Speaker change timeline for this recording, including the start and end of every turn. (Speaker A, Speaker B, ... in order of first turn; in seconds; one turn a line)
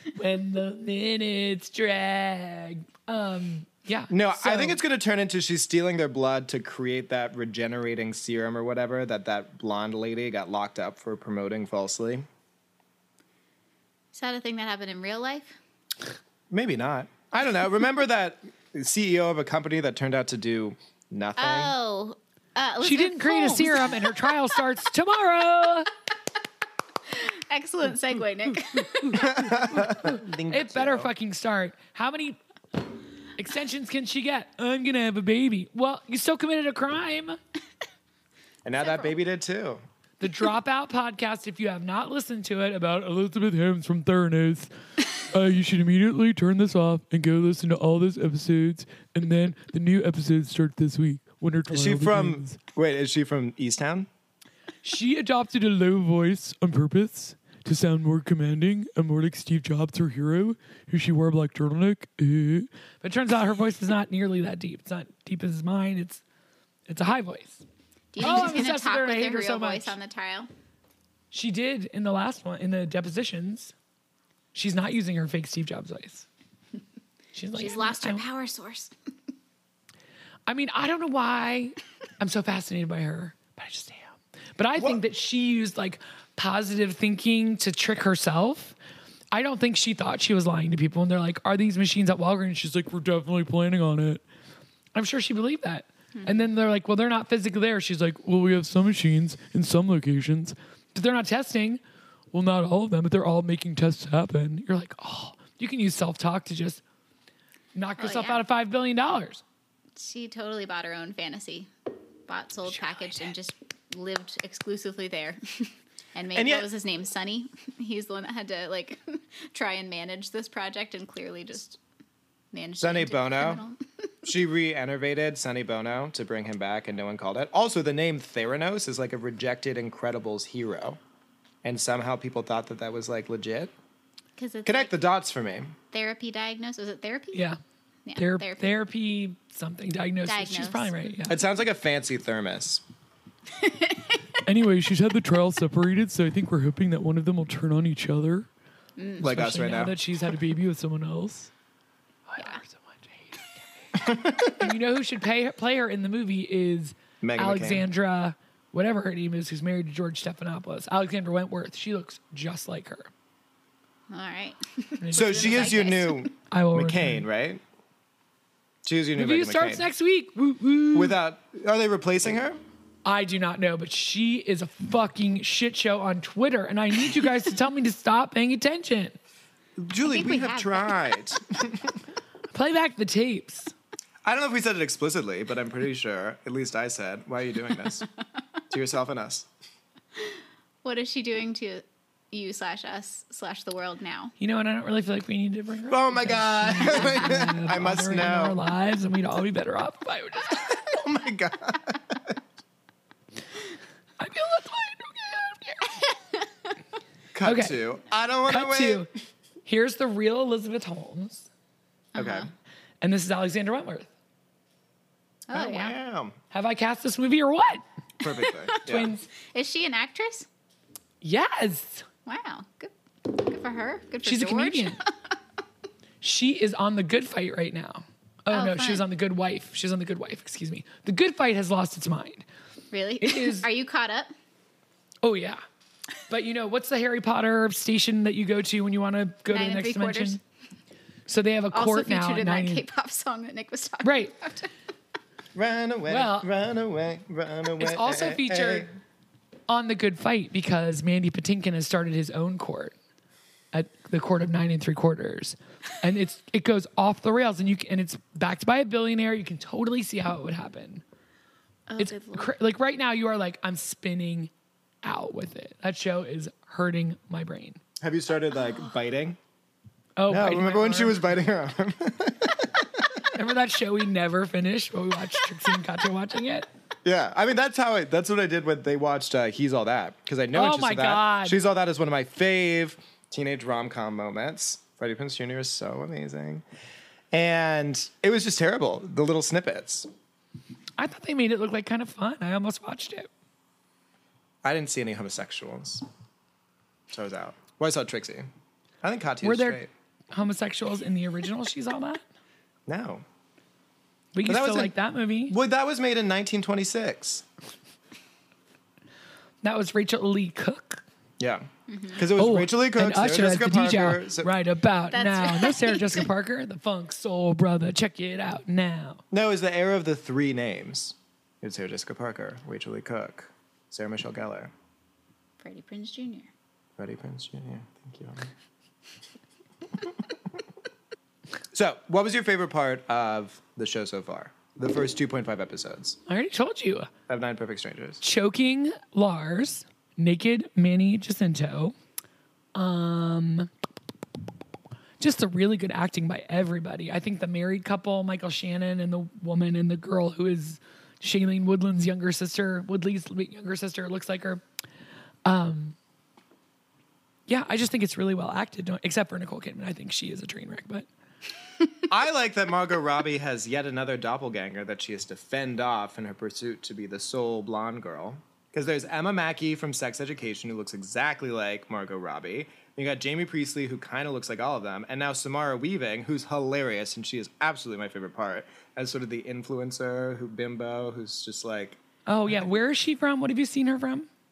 Speaker A: 0.1-4.8
Speaker B: 4.1-12.2
Speaker C: 14.1-15.5
Speaker B: 16.5-21.7
Speaker C: 21.4-24.1
Speaker A: 22.8-25.9
Speaker C: 27.1-29.4
Speaker A: 28.5-32.4
Speaker B: 29.1-31.1
Speaker A: 33.4-37.4
Speaker B: 38.6-39.8
Speaker A: 40.2-52.6
Speaker B: 51.7-54.1
Speaker A: 54.8-66.2
Speaker A: 66.9-67.6
Speaker C: 68.1-70.5
Speaker A: 68.2-69.9
Speaker A: 71.3-73.7
Speaker A: 74.5-76.2
Speaker A: 77.3-78.2
Speaker C: 77.5-78.9
Speaker A: 80.5-88.7
Speaker A: 89.3-94.2
Speaker A: 94.9-101.8
Speaker C: 96.1-96.5
Speaker A: 102.3-106.8
Speaker A: 107.7-109.4
Speaker C: 108.0-108.4
Speaker C: 110.0-111.7
Speaker C: 112.3-121.8
Speaker B: 116.3-116.7
Speaker C: 122.5-124.1
Speaker B: 122.8-123.6
Speaker B: 124.2-131.0
Speaker B: 131.6-133.7
Speaker C: 134.4-135.0
Speaker B: 134.6-135.7
Speaker C: 135.9-137.5
Speaker A: 137.3-137.6
Speaker C: 138.1-138.6
Speaker A: 138.2-141.4
Speaker C: 140.2-141.1
Speaker B: 141.3-142.8
Speaker C: 143.6-144.2
Speaker A: 144.4-148.5
Speaker C: 149.0-149.2
Speaker B: 149.2-149.9
Speaker A: 149.2-151.5
Speaker A: 152.3-153.8
Speaker B: 153.9-154.7
Speaker A: 154.5-163.1
Speaker B: 157.2-157.8
Speaker C: 164.1-166.3
Speaker A: 165.0-165.8
Speaker B: 165.1-167.6
Speaker A: 166.5-167.2
Speaker B: 168.8-169.8
Speaker A: 169.2-171.2
Speaker B: 170.9-172.6
Speaker A: 173.0-179.2
Speaker B: 179.8-182.0
Speaker C: 180.0-181.2
Speaker A: 182.5-183.7
Speaker B: 184.2-188.1
Speaker B: 188.7-189.5
Speaker C: 190.8-194.3
Speaker A: 194.4-200.8
Speaker B: 195.9-198.6
Speaker B: 200.5-202.4
Speaker A: 204.2-206.1
Speaker B: 207.3-209.1
Speaker A: 207.4-207.8
Speaker A: 208.5-209.1
Speaker A: 209.6-211.5
Speaker C: 212.1-212.5
Speaker B: 212.1-212.5
Speaker A: 213.0-214.1
Speaker C: 215.5-215.9
Speaker B: 215.5-216.3
Speaker A: 216.5-217.8
Speaker B: 218.2-219.1
Speaker C: 218.7-220.5
Speaker A: 218.8-219.3
Speaker A: 221.2-222.0
Speaker C: 222.2-225.1
Speaker A: 224.2-225.0
Speaker A: 226.2-232.4
Speaker C: 228.5-229.0
Speaker C: 232.9-234.3
Speaker A: 233.2-233.7
Speaker A: 235.2-235.6
Speaker A: 236.3-240.4
Speaker C: 239.5-240.4
Speaker A: 241.3-242.8
Speaker C: 241.7-244.7
Speaker A: 244.0-244.3
Speaker B: 245.5-248.9
Speaker A: 246.1-246.5
Speaker A: 247.8-248.9
Speaker A: 249.7-252.9
Speaker A: 253.7-261.0
Speaker C: 261.9-262.5
Speaker A: 262.0-264.5
Speaker A: 265.0-267.8
Speaker B: 268.0-269.4
Speaker A: 270.2-271.2
Speaker B: 270.3-273.2
Speaker A: 273.3-276.7
Speaker B: 277.0-286.6
Speaker A: 280.5-281.6
Speaker B: 287.3-290.1
Speaker A: 291.0-293.3
Speaker B: 294.6-296.0
Speaker B: 297.1-298.5
Speaker B: 299.0-299.9
Speaker A: 299.4-302.2
Speaker B: 302.9-303.2
Speaker A: 304.3-305.6
Speaker B: 304.4-304.9
Speaker B: 305.5-307.4
Speaker A: 309.6-311.0
Speaker B: 311.4-314.5
Speaker C: 311.9-312.2
Speaker A: 312.4-319.2
Speaker C: 315.1-316.2
Speaker B: 319.3-324.7
Speaker C: 325.6-326.5
Speaker B: 327.0-328.5
Speaker B: 329.9-330.3
Speaker B: 331.7-336.2
Speaker A: 336.3-337.1
Speaker B: 337.3-338.2
Speaker A: 338.2-341.9
Speaker A: 342.7-343.7
Speaker A: 345.2-354.6
Speaker A: 355.4-356.0
Speaker A: 357.5-361.1
Speaker B: 362.1-382.0
Speaker A: 382.3-384.3